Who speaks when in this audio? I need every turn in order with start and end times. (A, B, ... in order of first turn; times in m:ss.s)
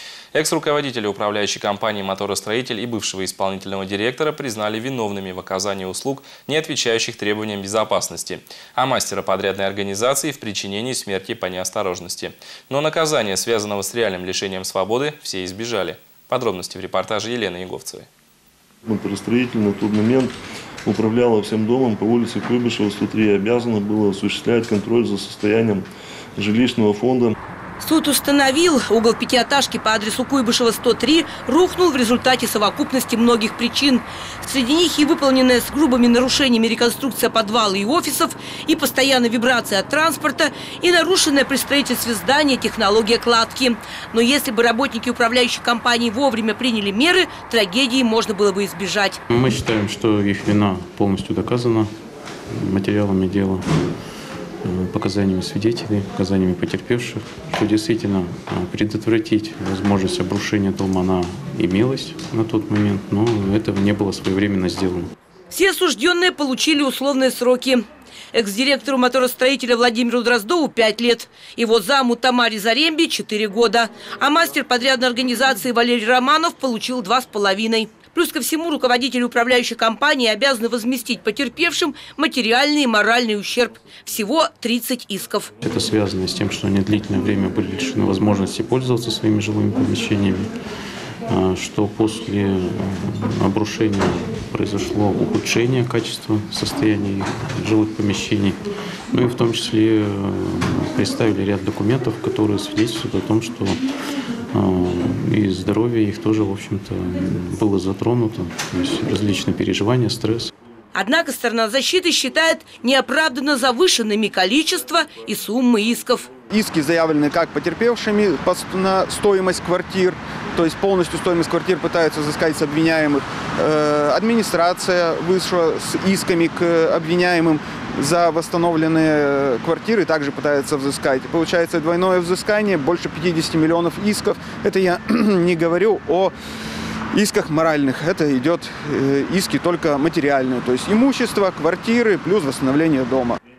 0:00.3-0:18.1 A
0:18.8-0:20.3 B
0:20.8-0:25.8 B
0:26.4-0:27.3 B
0:27.8-0:49.2 C
0:49.3-0:51.9 D
0:52.5-0:53.6 D
0:54.6-1:05.1 D
1:05.5-1:25.5 C
1:25.6-1:30.5 D
1:31.3-1:38.6 D
1:39.1-1:43.8 D
1:44.5-1:50.5 D
1:50.9-1:56.3 C
1:56.5-2:16.3 E
2:17.1-2:23.4 E